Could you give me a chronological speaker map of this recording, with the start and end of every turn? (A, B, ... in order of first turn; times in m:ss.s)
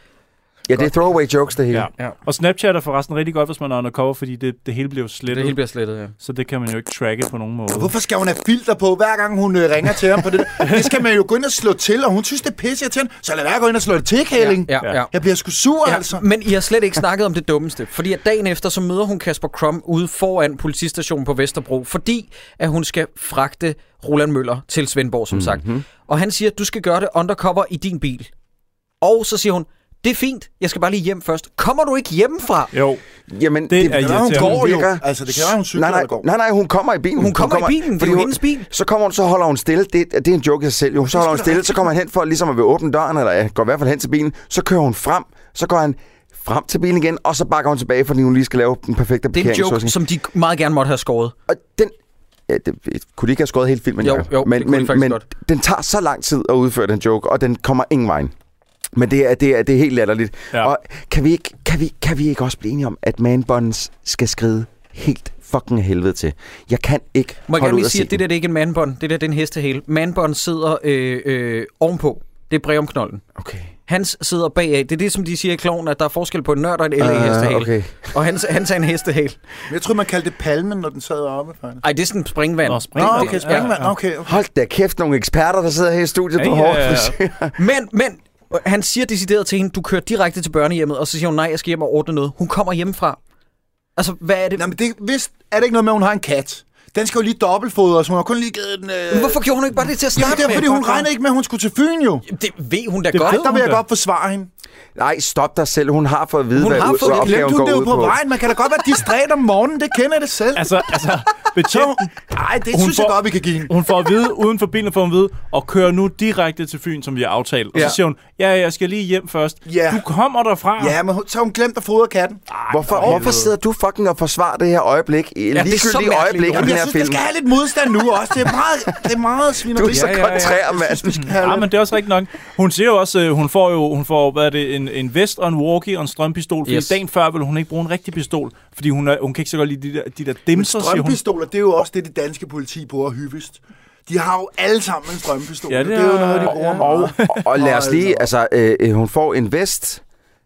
0:00.7-0:01.9 A
0:01.7-0:05.6 B
0:05.3-0:06.1 C
0:06.2-0:07.9 B
0:07.7-0:16.3 D
0:14.4-0:15.1 C
0:15.8-0:28.3 C
0:25.3-0:25.8 A
0:29.0-0:32.7 C
0:32.7-0:33.0 B
0:33.3-0:50.0 A
0:33.7-0:34.7 B
0:33.9-0:36.3 D
0:37.2-0:38.7 C
0:41.2-0:41.5 D
0:49.3-0:51.4 C
0:51.5-0:51.9 A
0:52.5-0:58.3 A
0:54.0-0:55.2 C
0:58.9-1:08.2 A
1:07.5-1:13.2 C
1:13.4-1:13.7 A
1:13.9-1:19.4 C
1:17.0-1:18.1 A
1:19.7-1:21.8 D
1:21.8-1:23.7 C
1:22.7-1:23.9 B
1:23.0-1:24.4 D
1:24.2-1:27.6 A
1:26.4-1:27.2 B
1:27.6-1:33.2 C
1:34.0-1:34.6 C
1:34.6-1:39.4 D
1:39.1-1:41.1 C
1:40.2-1:42.2 D
1:42.3-1:43.5 C
1:43.1-1:43.8 B
1:43.2-1:44.5 D
1:45.0-1:48.2 A
1:46.6-1:47.5 C
1:46.8-1:51.2 D
1:50.6-1:52.1 B
1:51.7-1:53.8 D
1:52.7-2:01.0 B
1:59.7-2:00.0 D
2:00.8-2:03.4 D
2:02.7-2:07.2 A
2:02.9-2:03.5 B
2:05.5-2:06.8 C
2:06.5-2:11.7 D
2:09.7-2:11.3 A
2:09.9-2:10.6 B
2:11.3-2:21.2 B
2:16.7-2:17.0 C
2:20.6-2:28.3 D
2:25.7-2:27.4 B
2:26.8-2:30.0 A